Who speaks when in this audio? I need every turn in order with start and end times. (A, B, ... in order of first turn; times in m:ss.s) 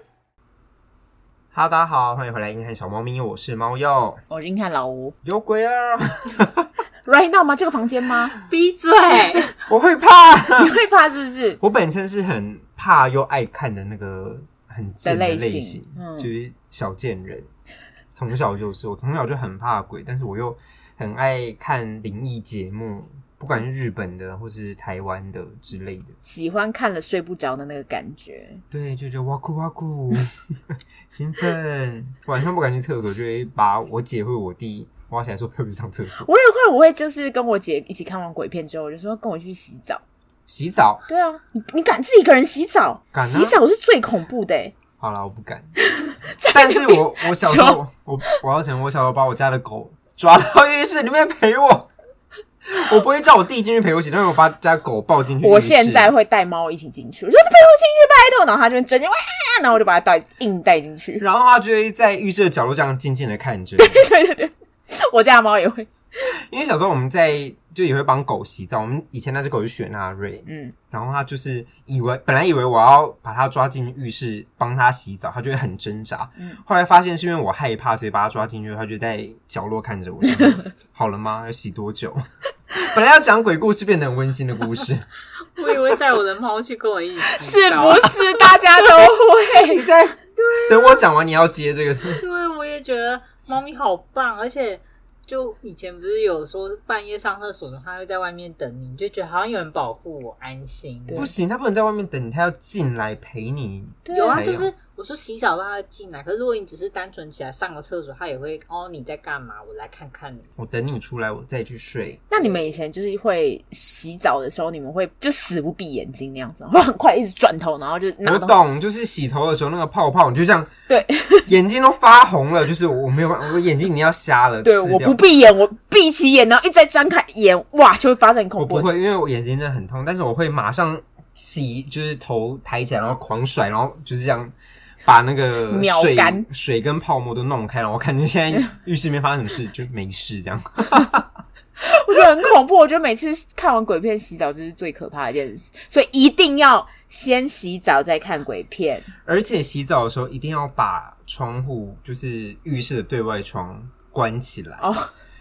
0:01.5-0:04.2 A
0:04.3-0:05.1 B
0:05.2-0:06.7 A
0:07.0-0:08.4 B
0:08.5-0:09.6 C
0:09.7-0:10.7 A
0:10.6-0:11.6 B
0:11.6-0:17.5 A
0:15.0-0:16.3 B
0:18.1-0:26.1 A
0:26.2-0:28.6 B
0:28.7-0:36.3 A
0:36.2-0:40.0 B
0:40.5-0:41.0 A
0:41.1-0:44.8 B
0:43.1-0:43.6 A
0:45.0-0:45.7 A
0:45.9-0:48.4 B
0:46.5-0:51.9 A
0:52.6-0:56.1 A
0:55.4-1:01.2 B
1:01.2-1:04.1 A
1:03.8-1:05.9 B
1:06.3-1:25.1 A
1:10.4-1:10.7 B
1:25.6-1:28.6 C
1:27.2-1:29.8 B
1:29.5-1:32.2 A
1:30.4-1:31.1 C
1:32.1-1:41.3 C
1:41.1-1:41.3 B
1:41.1-1:44.7 A
1:44.0-1:44.4 B
1:44.1-1:50.5 C
1:50.6-1:52.2 A
1:52.3-1:58.6 B
1:58.2-2:00.7 A
2:00.9-2:01.5 B
2:01.5-2:05.2 A
2:04.6-2:08.9 B
2:08.6-2:14.5 A
2:15.0-2:21.3 A
2:15.7-2:16.5 B
2:21.8-2:29.1 B
2:29.2-2:34.9 A
2:34.8-2:35.1 B